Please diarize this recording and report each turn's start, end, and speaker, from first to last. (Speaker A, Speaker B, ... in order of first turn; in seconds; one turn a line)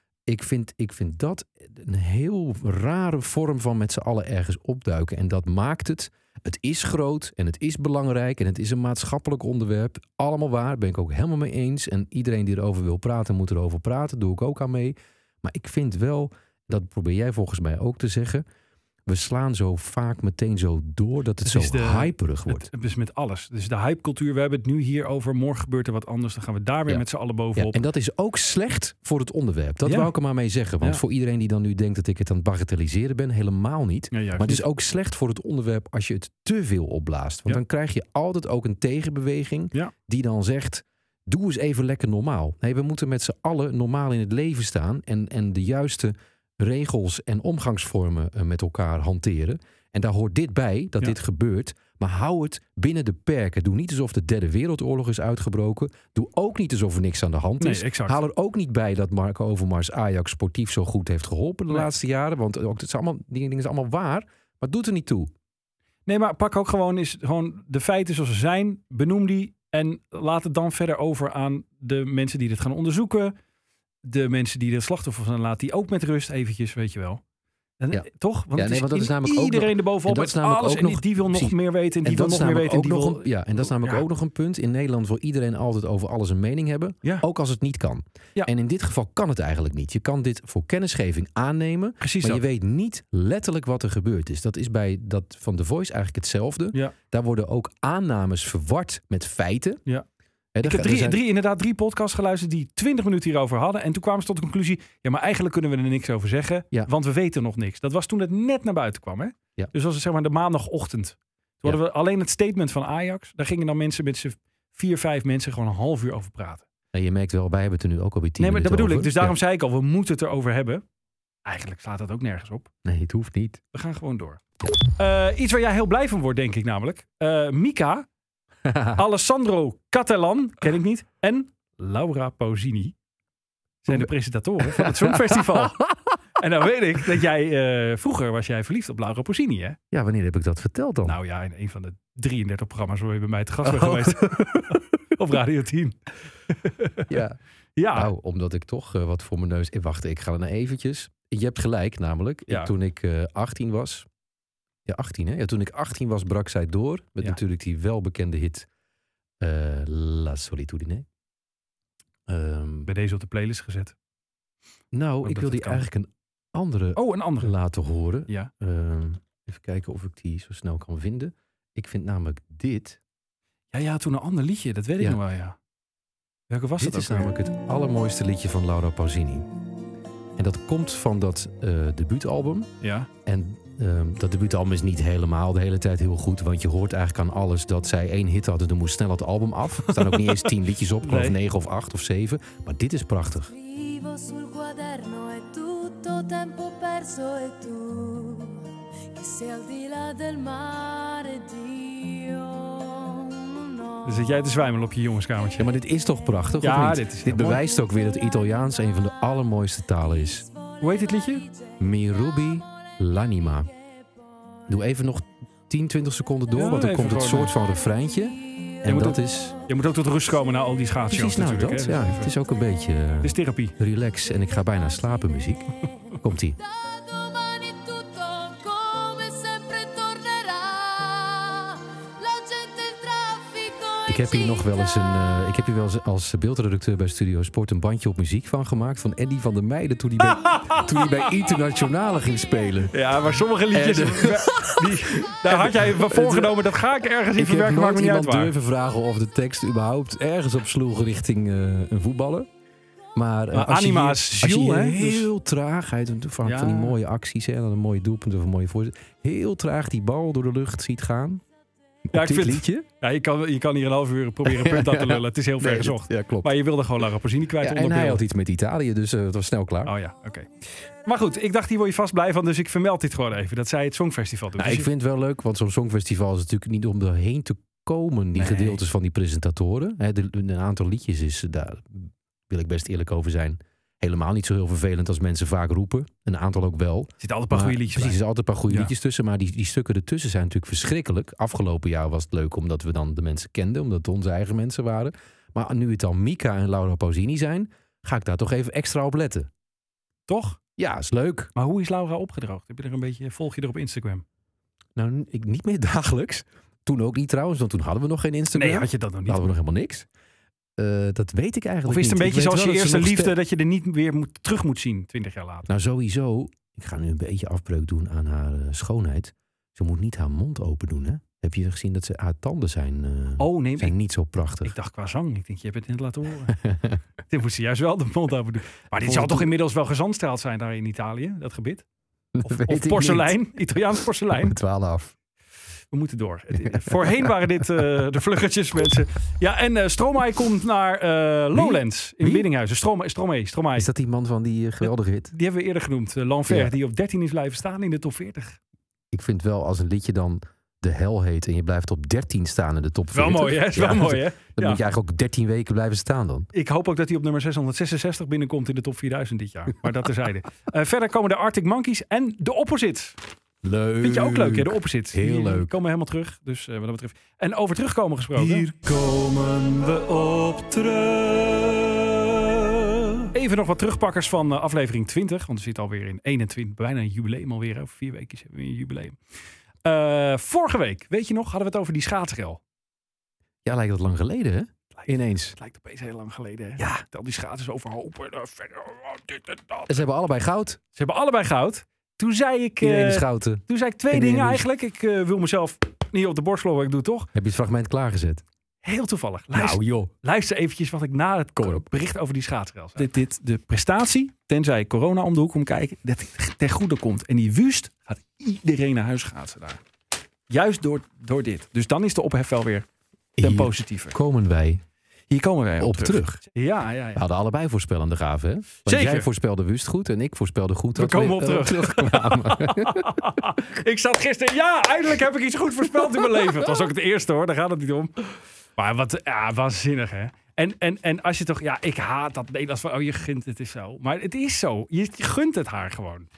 Speaker A: 0.3-18.4
Speaker A: 19.1-22.7
Speaker B: 21.4-27.8
Speaker A: 27.6-65.3
Speaker B: 29.9-30.1
Speaker B: 34.1-34.6
Speaker B: 57.6-58.2
Speaker B: 66.1-73.3
Speaker B: 74.0-77.2
Speaker B: 77.8-84.0
Speaker A: 77.9-99.8
Speaker B: 92.0-92.4
Speaker A: 100.5-101.2
Speaker B: 100.6-116.7
Speaker A: 116.9-119.4
Speaker B: 118.4-120.8
Speaker B: 121.5-122.7
Speaker A: 122.8-123.6
Speaker B: 123.7-128.1
Speaker A: 128.7-129.0
Speaker B: 128.9-132.9
Speaker B: 133.8-135.8
Speaker A: 134.6-135.9
Speaker B: 136.4-139.8
Speaker A: 139.9-141.2
Speaker B: 141.1-146.0
Speaker A: 143.6-144.8
Speaker B: 146.6-147.1
Speaker A: 147.1-147.4
Speaker B: 147.8-148.1
Speaker A: 147.9-154.1
Speaker A: 154.9-158.7
Speaker A: 159.4-161.1
Speaker A: 162.3-162.9
Speaker B: 162.9-163.9
Speaker A: 164.9-173.0
Speaker B: 165.2-165.8
Speaker B: 167.0-167.5
Speaker B: 173.7-175.6
Speaker B: 176.5-177.3
Speaker A: 176.8-179.5
Speaker A: 180.4-182.7
Speaker B: 182.8-183.1
Speaker A: 183.3-193.5
Speaker B: 189.9-190.5
Speaker B: 191.0-191.4
Speaker C: 193.5-204.1
Speaker B: 204.1-205.7
Speaker A: 205.6-210.5
Speaker B: 206.6-207.6
Speaker B: 210.8-211.4
Speaker A: 211.8-213.7
Speaker A: 214.7-219.6
Speaker B: 216.6-217.5
Speaker B: 218.8-222.3
Speaker A: 221.1-225.7
Speaker B: 223.2-223.8
Speaker A: 226.2-226.6
Speaker C: 226.6-235.2
Speaker A: 234.1-242.9
Speaker B: 240.2-241.0
Speaker B: 242.9-248.5
Speaker A: 243.7-246.7
Speaker A: 247.4-252.5
Speaker A: 253.2-261.4
Speaker B: 253.5-255.3
Speaker B: 256.4-257.0
Speaker A: 262.1-262.9
Speaker B: 262.1-268.2
Speaker A: 264.4-266.6
Speaker A: 267.6-269.9
Speaker B: 269.9-270.5
Speaker B: 271.1-274.9
Speaker A: 274.6-299.5
Speaker B: 278.4-278.8
Speaker B: 287.2-288.9
Speaker B: 300.3-300.6
Speaker A: 300.8-301.5
Speaker B: 301.6-304.2
Speaker A: 305.0-310.1
Speaker B: 308.6-309.4
Speaker A: 310.8-313.4
Speaker B: 311.9-315.7
Speaker A: 315.7-324.7
Speaker B: 323.4-323.9
Speaker B: 324.6-326.6
Speaker A: 326.6-327.0
Speaker B: 327.3-331.8
Speaker A: 329.0-329.5
Speaker A: 332.3-333.4
Speaker B: 332.4-334.6
Speaker A: 333.9-335.1
Speaker B: 335.9-343.9
Speaker A: 336.6-337.4
Speaker A: 341.6-342.5
Speaker A: 343.8-345.3
Speaker B: 345.3-348.6
Speaker A: 346.5-346.7
Speaker A: 349.1-356.5
Speaker B: 353.1-354.8
Speaker B: 356.5-363.2
Speaker A: 363.6-365.7
Speaker B: 364.0-368.7
Speaker A: 368.4-373.1
Speaker B: 373.3-379.2
Speaker B: 379.9-382.6
Speaker A: 383.6-385.6
Speaker B: 384.9-390.0
Speaker A: 389.9-390.8
Speaker B: 391.0-397.3
Speaker A: 392.8-394.6
Speaker A: 397.3-398.4
Speaker B: 398.8-409.8
Speaker A: 399.5-400.1
Speaker A: 401.6-401.8
Speaker B: 410.5-412.9
Speaker A: 413.4-414.8
Speaker B: 413.4-414.2
Speaker B: 415.3-417.2
Speaker A: 415.8-416.4
Speaker A: 417.2-423.2
Speaker B: 418.9-419.3
Speaker B: 421.0-428.1
Speaker B: 428.8-436.3